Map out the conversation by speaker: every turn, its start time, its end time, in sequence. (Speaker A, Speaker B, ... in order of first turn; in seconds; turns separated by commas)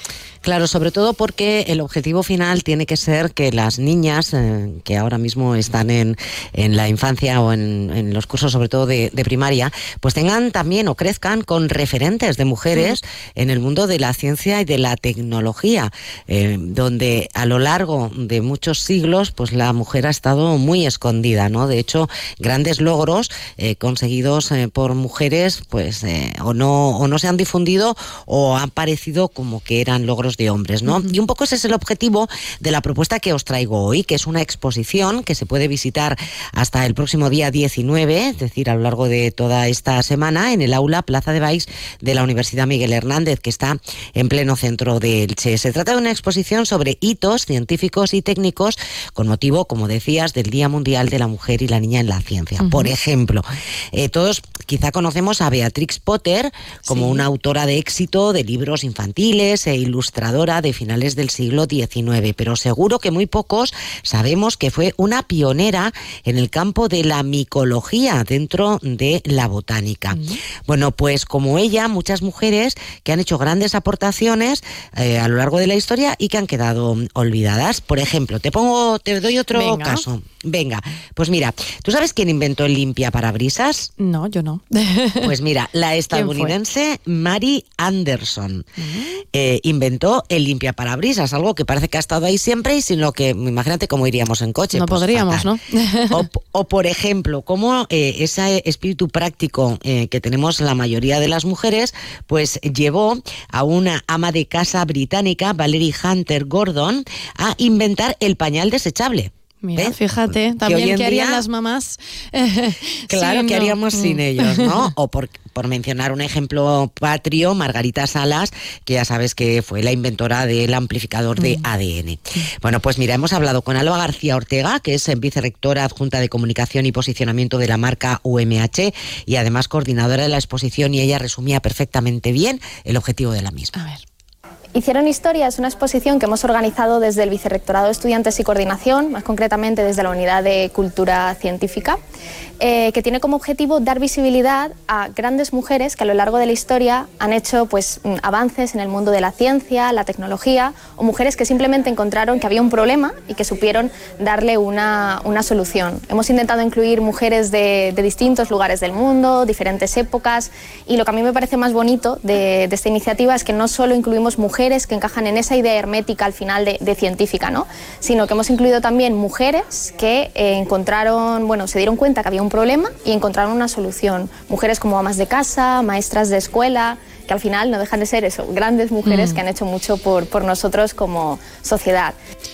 Speaker A: 0.4-83.9, Speaker B: 30.9-31.1, Speaker B: 52.6-52.9, Speaker B: 56.9-57.2, Speaker B: 70.1-70.4, Speaker B: 79.5-80.1, Speaker B: 84.0-85.3, Speaker A: 85.2-88.6, Speaker B: 86.1-86.6, Speaker B: 88.8-89.2, Speaker A: 89.3-95.5, Speaker B: 94.7-96.2, Speaker A: 96.1-111.4, Speaker B: 109.6-114.9, Speaker A: 113.1-133.7, Speaker B: 121.4-121.7, Speaker B: 133.7-134.0, Speaker C: 134.7-142.0, Speaker C: 142.6-182.2, Speaker B: 179.0-179.4